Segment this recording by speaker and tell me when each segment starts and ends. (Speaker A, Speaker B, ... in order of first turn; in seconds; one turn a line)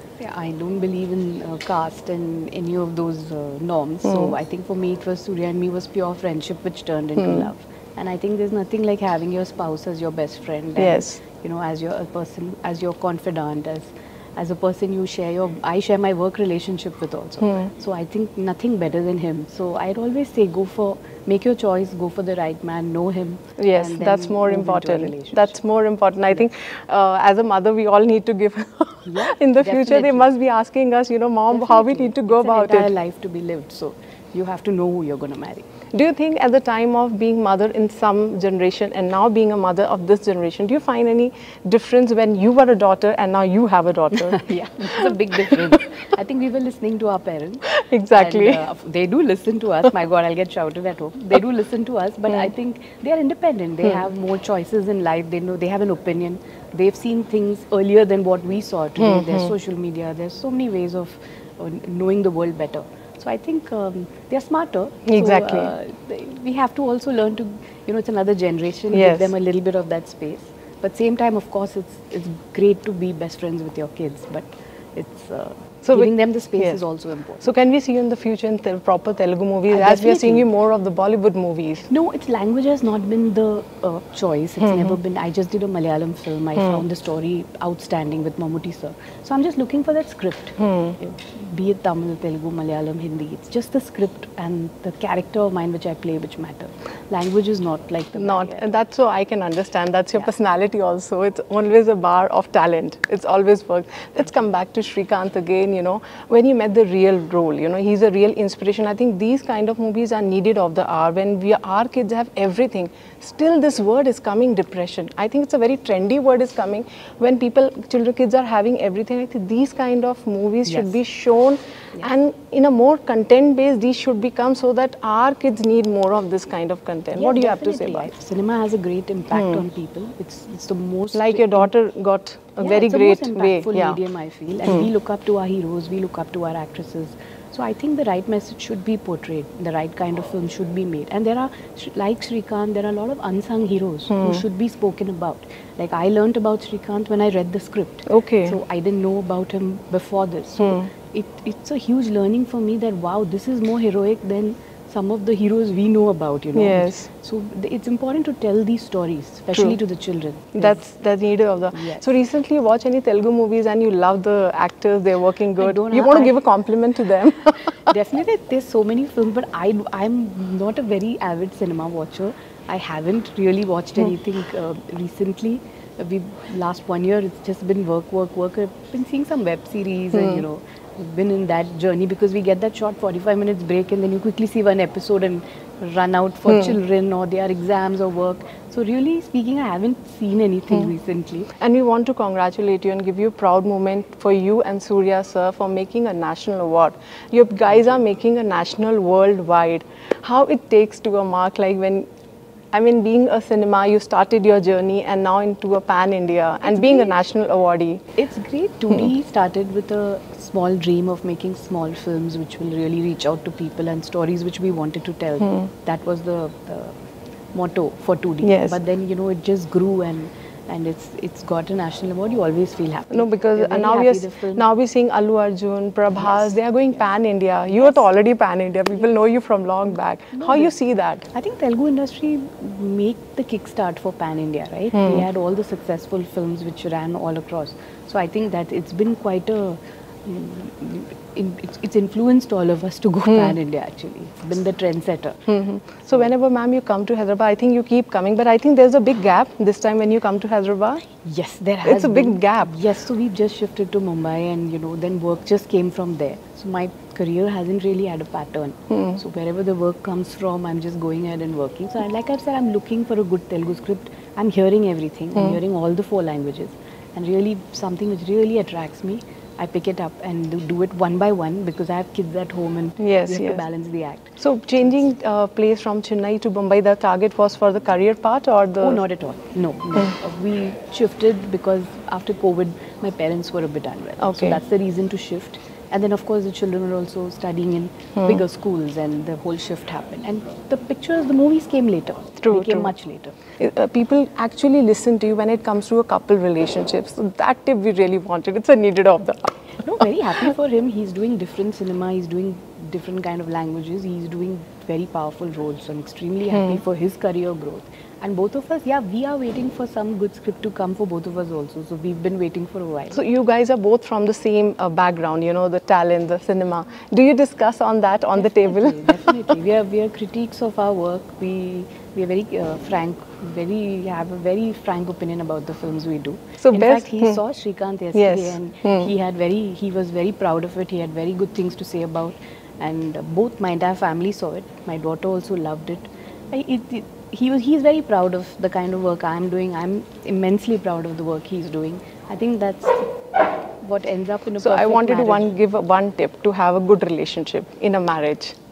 Speaker A: 0.2-25.6
Speaker B: 4.0-4.3
Speaker B: 7.2-7.5
Speaker B: 10.8-11.2
Speaker B: 17.4-17.7
Speaker B: 23.6-32.9
Speaker A: 29.1-30.3
Speaker A: 31.5-35.7
Speaker B: 35.9-45.8
Speaker A: 44.2-77.5
Speaker B: 47.7-48.6
Speaker B: 59.0-59.5
Speaker B: 65.0-65.7
Speaker B: 68.9-69.3
Speaker B: 75.8-76.8
Speaker B: 77.4-81.9
Speaker A: 79.7-80.5
Speaker A: 81.9-98.8
Speaker B: 84.6-85.0
Speaker B: 90.6-91.0
Speaker B: 98.2-128.1
Speaker A: 120.7-121.0
Speaker A: 127.1-131.7
Speaker B: 129.3-129.6
Speaker B: 131.1-134.0
Speaker A: 132.6-160.8
Speaker B: 144.1-144.4
Speaker B: 148.1-148.6
Speaker B: 150.6-150.9
Speaker B: 156.5-157.1
Speaker B: 160.6-167.9
Speaker A: 161.7-162.1
Speaker A: 165.6-166.4
Speaker A: 167.9-191.5
Speaker B: 180.1-180.4
Speaker B: 186.5-186.8
Speaker B: 191.6-202.1
Speaker B: 202.7-208.0
Speaker A: 206.6-207.2
Speaker A: 208.2-216.9
Speaker A: 217.5-224.7
Speaker B: 218.4-218.8
Speaker B: 223.1-231.2
Speaker A: 226.1-227.0
Speaker A: 227.7-228.1
Speaker A: 230.3-230.7
Speaker A: 231.3-245.4
Speaker B: 234.9-235.2
Speaker B: 243.3-243.6
Speaker B: 245.5-251.0
Speaker A: 251.2-274.4
Speaker B: 251.8-252.8
Speaker B: 258.9-259.2
Speaker B: 273.0-273.6
Speaker B: 274.4-279.0
Speaker A: 278.8-293.4
Speaker B: 284.2-284.6
Speaker B: 288.1-288.4
Speaker B: 292.4-292.9
Speaker B: 293.6-300.5
Speaker A: 299.8-313.2
Speaker B: 306.5-306.8
Speaker B: 313.1-319.5
Speaker A: 318.3-343.1
Speaker B: 326.6-327.4
Speaker B: 328.1-329.1
Speaker A: 343.8-345.5
Speaker B: 344.6-348.5